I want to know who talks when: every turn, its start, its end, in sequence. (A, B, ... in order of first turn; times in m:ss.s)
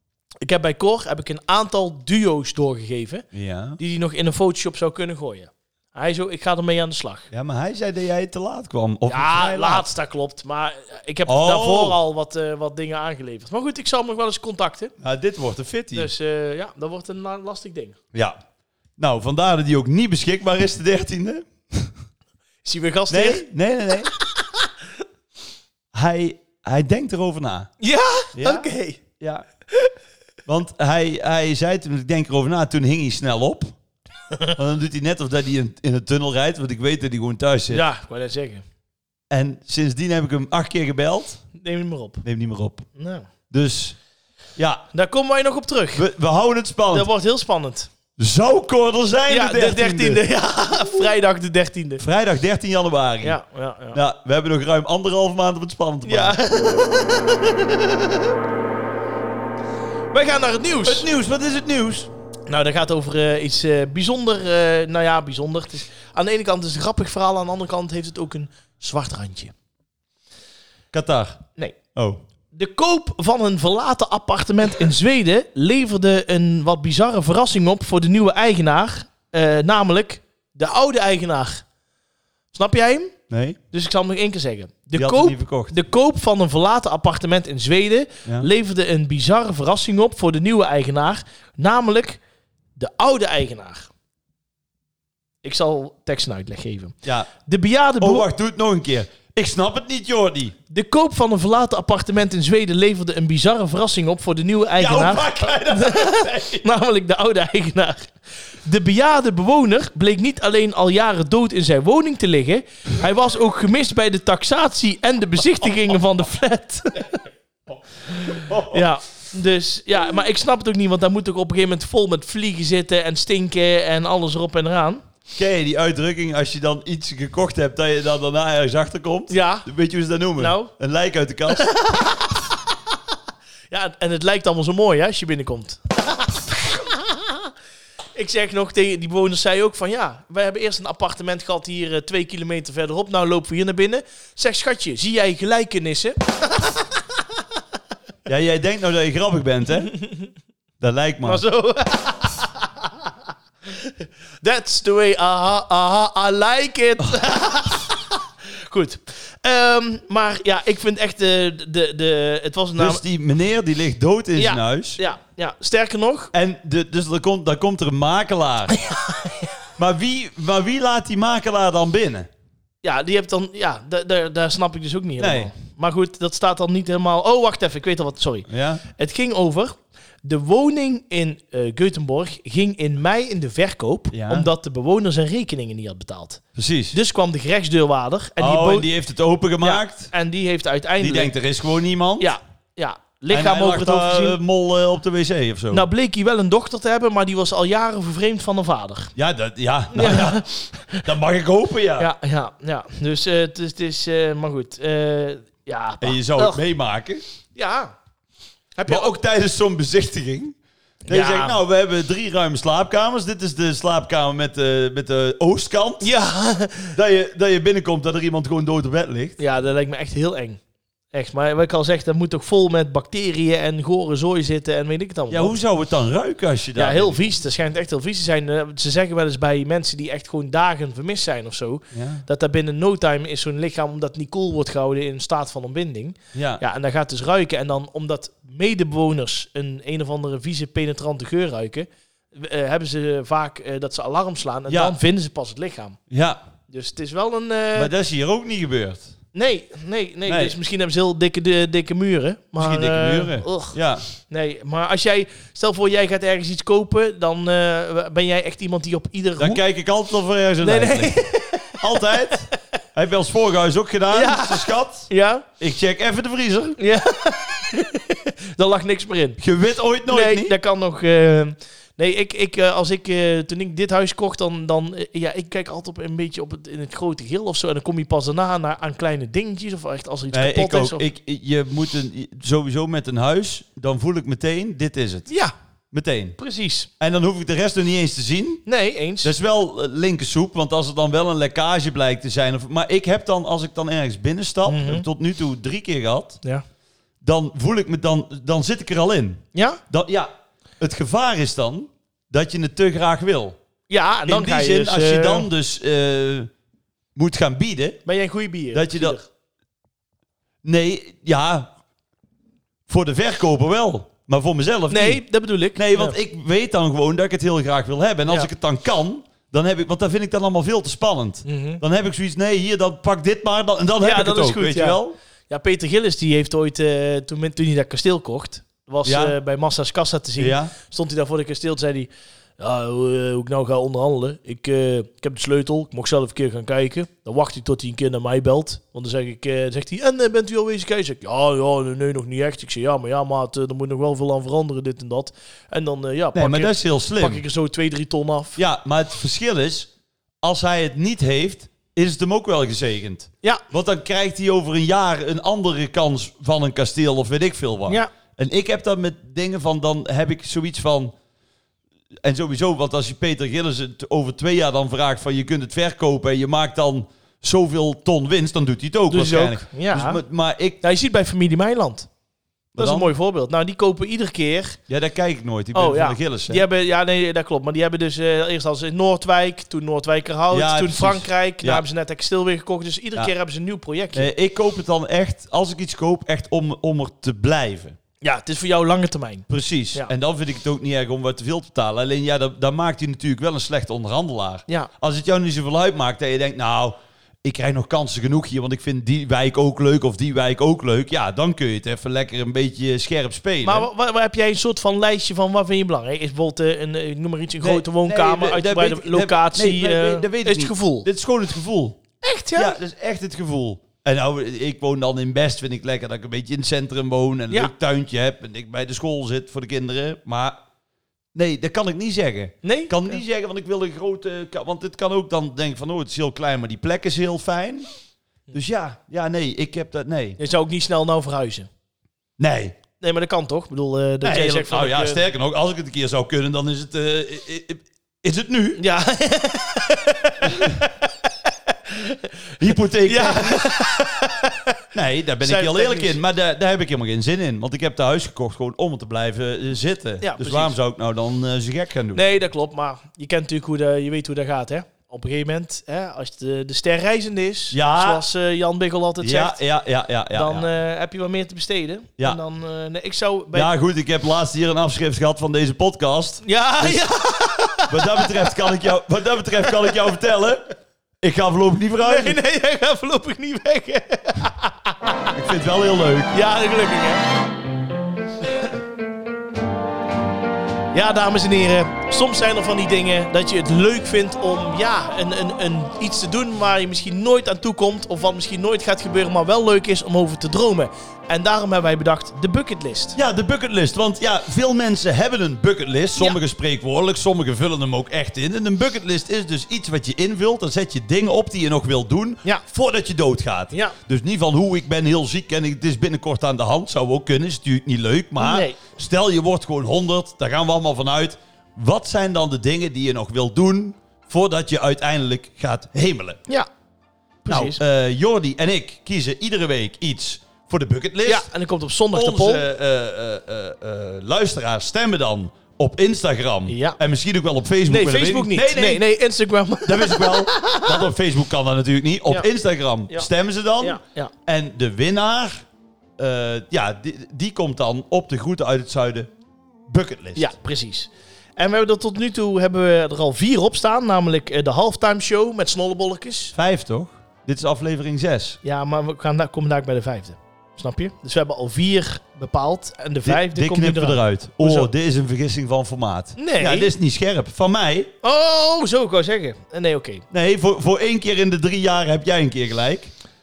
0:00.4-0:03.2 A
0:03.3-0:03.8 B
0:03.8-0:07.3 A
0:07.3-0:09.9 B
0:09.1-0:14.9 A
0:11.2-0:12.0 B
0:15.0-0:16.1 B
0:15.9-0:18.0 A
0:18.1-0:18.4 B
0:19.0-0:21.9 B
0:22.6-0:23.4 A
0:23.1-0:24.1 B
0:24.1-0:24.7 A
0:25.9-0:27.7 B
0:27.8-0:29.0 A
0:28.3-0:29.4 B
0:30.4-0:33.7 B
0:34.5-0:37.8 B
0:37.7-0:38.6 A
0:39.3-0:41.4 B
0:41.5-0:42.2 A
0:42.2-0:42.8 B
0:43.0-0:43.3 A
0:43.5-0:44.0 B
0:44.6-0:44.8 B
0:44.9-0:46.0 A
0:45.9-0:47.1 B
0:46.9-0:47.9 A
0:48.2-0:50.2 B
0:49.3-0:52.0 A
0:52.0-0:53.4 B
0:53.2-0:54.0 A
0:53.9-0:56.4 B
0:56.0-0:58.3 A
1:00.1-1:01.1 A
1:00.8-1:02.1 B
1:02.5-1:09.5 A
1:10.9-1:12.2 B
1:12.5-1:21.6 A
1:22.5-1:23.1 A
1:23.3-1:23.6 B
1:23.7-1:32.2 A
1:24.9-1:25.8 B
1:32.8-1:33.9 A
1:35.4-1:38.3 A
1:37.0-1:37.3 B
1:38.0-1:40.6 B
1:40.7-1:57.2 A
1:44.8-1:46.6 B
1:58.1-2:05.0 A
1:58.2-1:58.8 B
2:05.3-2:11.8 B
2:09.3-2:09.6 A
2:10.4-2:10.7 A
2:11.5-2:12.3 A
2:13.7-2:17.5 A
2:18.1-2:26.8 A
2:28.2-2:29.9 B
2:29.9-2:30.2 A
2:30.8-2:31.4 B
2:31.2-2:32.9 A
2:33.8-2:43.0 A
2:42.8-2:45.0 B
2:44.4-2:46.3 A
2:46.3-2:48.8 B
2:48.7-2:49.5 A
2:49.8-2:52.3 B
2:52.8-3:08.9 A
2:55.2-2:55.5 B
2:58.5-2:58.8 B
3:04.1-3:04.5 B
3:06.5-3:07.0 B
3:08.4-3:10.1 B
3:09.6-3:11.3 A
3:11.0-3:12.3 B
3:12.2-3:14.4 A
3:13.3-3:15.9 B
3:15.7-3:19.1 A
3:19.2-3:22.1 B
3:19.9-3:21.1 A
3:22.0-3:26.6 A
3:26.0-3:27.2 B
3:27.5-3:27.9 A
3:28.8-3:29.2 A
3:28.9-3:30.6 B
3:31.0-3:31.6 A
3:31.1-3:36.1 B
3:36.0-3:37.0 A
3:36.9-3:39.4 B
3:39.4-3:40.6 A
3:41.1-3:45.6 A
3:45.3-3:47.3 B
3:46.8-4:06.0 A
3:51.9-3:52.2 B
3:56.3-3:56.6 B
4:04.7-4:05.0 B
4:06.1-4:06.4 B
4:06.7-4:07.9 A
4:07.7-4:09.1 B
4:09.3-4:13.8 A
4:10.2-4:10.5 B
4:12.6-4:14.0 B
4:14.3-4:19.6 A
4:19.4-4:21.2 B
4:20.6-4:22.3 A
4:21.7-4:25.1 B
4:24.1-4:25.4 A
4:25.6-4:26.8 B
4:26.8-4:29.4 A
4:29.4-4:30.5 B
4:30.1-4:41.0 A
4:40.3-4:45.3 B
4:45.3-4:45.5 A
4:45.9-4:46.4 B
4:46.4-4:46.9 A
4:47.0-4:48.6 B
4:48.6-4:49.3 A
4:49.2-4:56.4 B
4:54.6-4:55.0 A
4:57.2-5:03.6 B
4:59.5-4:59.8 A
5:03.9-5:05.5 A
5:04.3-5:06.5 B
5:07.1-5:08.0 B
5:08.0-5:09.2 A
5:08.7-5:09.2 B
5:10.6-5:11.7 B
5:12.9-5:15.2 B
5:14.9-5:16.2 A
5:15.7-5:25.2 B
5:21.4-5:21.8 A
5:24.0-5:48.6 A
5:29.0-5:29.3 B
5:30.4-5:30.7 B
5:46.3-5:47.4 B
5:48.6-5:49.9 B
5:50.4-6:01.1 B
6:02.2-6:10.8 B
6:09.1-6:10.2 A
6:10.8-6:12.1 A
6:12.7-6:13.1 B
6:12.8-6:14.8 A
6:14.9-6:16.6 B
6:15.7-6:24.3 A
6:20.5-6:21.8 B
6:24.1-6:28.0 B
6:28.2-6:30.1 A
6:29.5-6:43.9 B
6:43.6-6:51.1 A
6:47.6-6:52.0 B
6:52.2-6:52.8 A
6:52.6-7:00.6 B
7:01.3-7:07.9 B
7:02.6-7:03.2 A
7:08.5-7:10.4 B
7:10.4-7:11.7 A
7:12.4-7:12.8 B
7:13.0-7:15.2 A
7:14.2-7:18.8 B
7:18.8-7:22.3 A
7:20.4-7:20.8 B
7:22.6-7:23.6 B
7:23.0-7:24.7 A
7:24.9-7:32.2 B
7:25.4-7:26.2 A
7:30.2-7:30.7 A
7:32.1-7:39.6 A
7:37.7-7:38.2 B
7:39.2-7:40.6 B
7:40.3-7:43.7 A
7:43.5-7:47.0 B
7:46.4-7:48.7 A
7:47.9-7:50.6 B
7:49.7-7:49.9 A
7:51.2-7:52.4 B
7:52.0-7:55.4 A
7:55.3-7:56.3 B
7:56.3-7:57.2 A
8:00.9-8:13.2 A
8:13.1-8:36.4 B
8:28.4-8:28.8 A
8:37.4-8:37.8 A
8:37.5-8:41.5 B
8:41.2-8:42.6 A
8:42.1-8:49.0 B
8:46.7-8:47.0 A
8:47.9-8:51.0 A
8:49.8-8:55.6 B
8:53.8-8:54.3 A
8:56.2-8:59.3 B
8:59.9-9:00.5 B
9:00.4-9:06.5 A
9:06.5-9:08.6 B
9:08.6-9:14.9 A
9:13.2-9:18.1 B
9:16.4-9:16.9 A
9:18.2-9:20.2 A
9:20.3-9:23.1 B